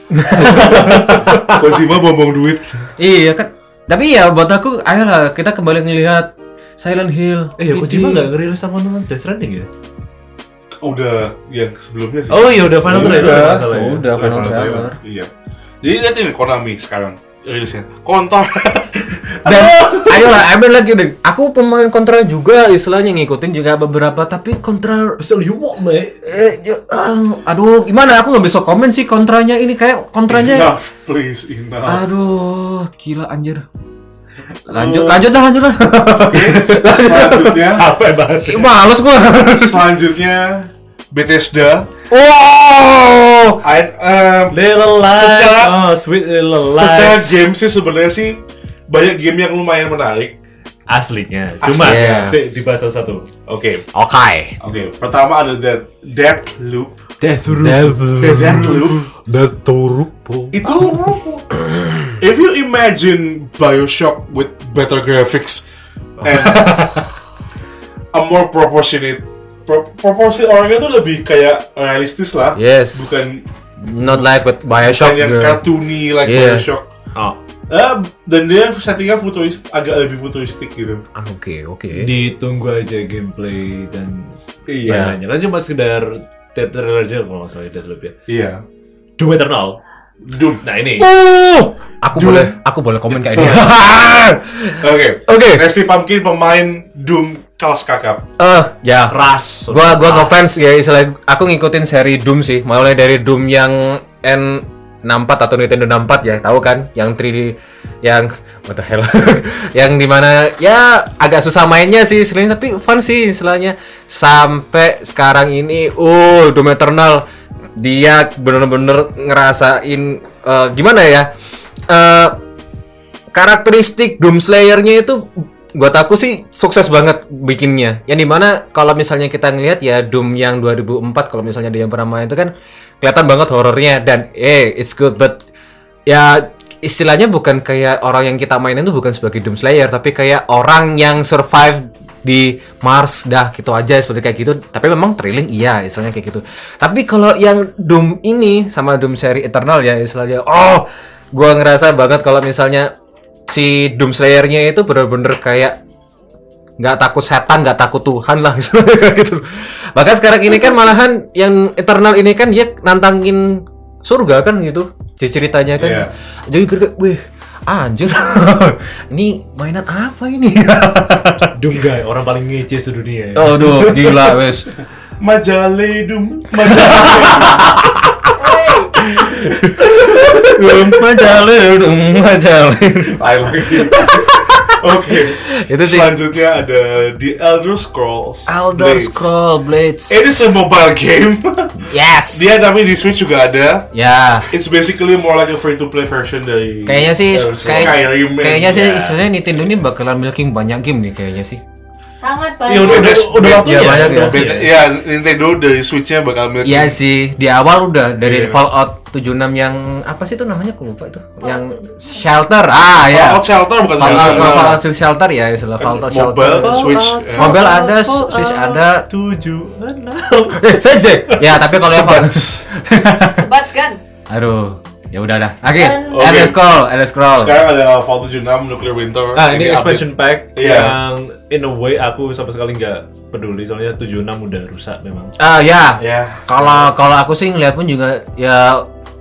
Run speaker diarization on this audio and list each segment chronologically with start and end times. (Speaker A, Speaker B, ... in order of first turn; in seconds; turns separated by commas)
Speaker A: 0.1-1.4, Speaker B: 0.3-1.5, Speaker C: 0.4-2.9, Speaker A: 3.0-8.3, Speaker B: 7.6-9.7, Speaker C: 10.8-15.3, Speaker B: 12.3-14.1, Speaker A: 12.9-15.0, Speaker C: 15.8-20.3, Speaker A: 19.4-25.2, Speaker B: 19.5-20.0, Speaker B: 25.2-26.3, Speaker A: 26.2-30.7, Speaker C: 30.3-32.0, Speaker A: 31.9-33.6, Speaker A: 34.7-37.6, Speaker B: 34.7-35.1, Speaker B: 36.2-38.7, Speaker C: 36.2-37.8, Speaker A: 38.4-39.9, Speaker C: 39.4-41.9, Speaker A: 42.1-43.6, Speaker C: 43.6-45.8, Speaker B: 44.5-47.3, Speaker C: 46.6-50.4, Speaker B: 50.9-53.3, Speaker C: 51.6-52.3, Speaker A: 51.8-52.4, Speaker C: 53.5-53.9, Speaker A: 53.9-54.6, Speaker C: 54.6-57.0, Speaker B: 57.2-58.8, Speaker A: 57.5-61.0, Speaker C: 58.3-59.1, Speaker C: 60.5-61.4, Speaker A: 61.5-62.2, Speaker C: 62.2-65.6, Speaker C: 66.2-67.0, Speaker A: 66.2-67.0, Speaker C: 68.1-73.5, Speaker A: 72.6-73.2, Speaker A: 73.8-75.7, Speaker C: 74.0-76.9, Speaker A: 76.2-76.7, Speaker C: 77.7-81.0, Speaker A: 81.1-82.1, Speaker B: 81.9-88.1, Speaker C: 84.7-85.1, Speaker A: 84.9-85.2, Speaker C: 88.3-88.6, Speaker B: 89.2-89.8, Speaker C: 90.2-90.6, Speaker B: 90.6-91.1, Speaker A: 91.0-95.7, Speaker C: 92.1-92.5, Speaker C: 93.1-94.2, Speaker C: 94.8-98.2, Speaker A: 98.4-99.2, Speaker B: 99.1-100.6, Speaker A: 99.7-117.2, Speaker A: 117.8-121.3, Speaker A: 121.9-122.4, Speaker A: 123.3-135.4, Speaker A: 136.1-152.9, Speaker A: 153.5-155.8, Speaker A: 156.8-171.5, Speaker C: 165.8-166.1, Speaker B: 171.6-174.3, Speaker A: 173.3-174.7, Speaker C: 175.2-177.8, Speaker A: 176.7-177.8, Speaker D: 178.4-179.0, Speaker A: 179.0-186.1, Speaker C: 179.4-181.0, Speaker C: 183.1-189.3, Speaker A: 188.5-190.3, Speaker C: 190.1-193.9, Speaker A: 191.9-192.5, Speaker A: 193.9-194.5, Speaker C: 194.5-199.1, Speaker A: 196.9-201.6, Speaker B: 197.3-197.9, Speaker D: 202.2-203.2, Speaker B: 202.7-204.6, Speaker C: 202.7-207.0, Speaker A: 203.4-204.7, Speaker A: 206.6-219.1, Speaker C: 208.2-208.6, Speaker D: 211.4-212.2, Speaker C: 213.0-214.8, Speaker B: 214.0-214.6, Speaker C: 215.8-217.6, Speaker B: 216.6-221.4, Speaker A: 220.6-223.4, Speaker C: 221.7-222.7, Speaker D: 223.4-224.0, Speaker A: 224.3-227.6, Speaker D: 225.8-226.1, Speaker C: 226.1-226.6, Speaker C: 227.3-231.0, Speaker B: 229.3-235.3, Speaker A: 235.4-238.9, Speaker C: 236.0-236.9